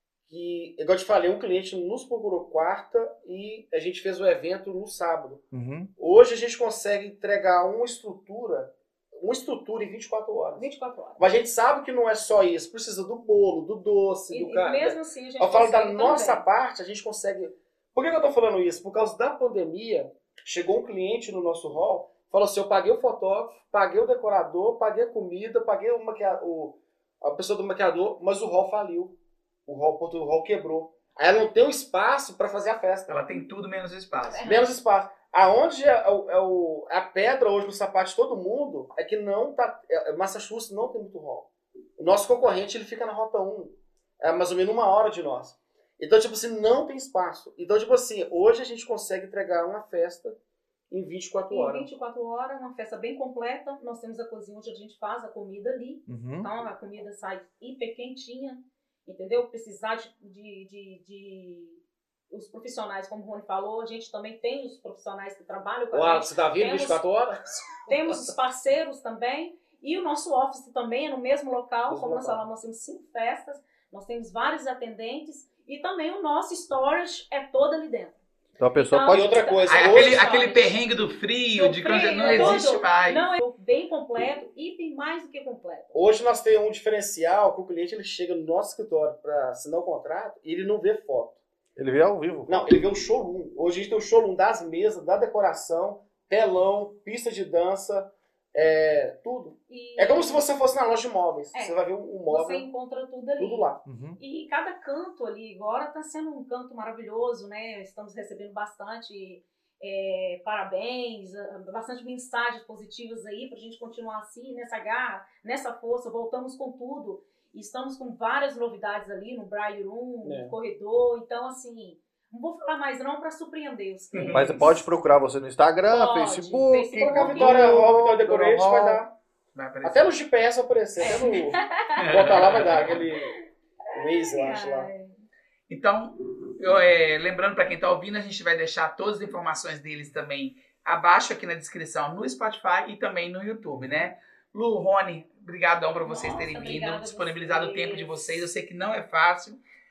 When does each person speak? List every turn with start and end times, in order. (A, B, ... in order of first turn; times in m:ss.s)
0:00.3-0:05.4 A
0:05.5-0:05.9 B
0:06.0-0:29.2 A
0:10.6-0:11.2 C
0:14.3-0:16.4 C
0:29.7-0:33.2 A
0:33.1-0:34.6 D
0:34.3-0:34.7 C
0:34.4-0:50.4 A
0:50.9-0:51.9 A
0:51.5-1:07.0 C
0:56.1-0:56.5 B
1:05.9-1:08.3 A
1:07.9-1:18.2 C
1:11.9-1:12.4 A
1:18.6-1:19.3 B
1:18.8-1:20.8 C
1:19.1-1:20.7 A
1:19.7-1:23.2 D
1:21.6-1:26.0 C
1:22.2-1:22.7 A
1:25.9-1:31.4 A
1:31.8-1:32.8 B
1:32.5-1:42.7 A
1:39.7-1:40.4 C
1:42.3-2:04.8 C
1:43.4-1:43.8 A
1:43.8-1:44.2 B
2:00.2-2:00.6 A
2:04.1-2:04.7 D
2:04.3-2:09.0 B
2:05.9-2:07.7 C
2:07.0-2:09.1 A
2:09.6-2:10.1 D
2:09.8-2:13.4 A
2:11.0-2:15.2 C
2:12.0-2:13.1 D
2:13.9-2:14.9 A
2:15.7-2:29.6 D
2:23.7-2:24.1 B
2:26.0-2:28.4 C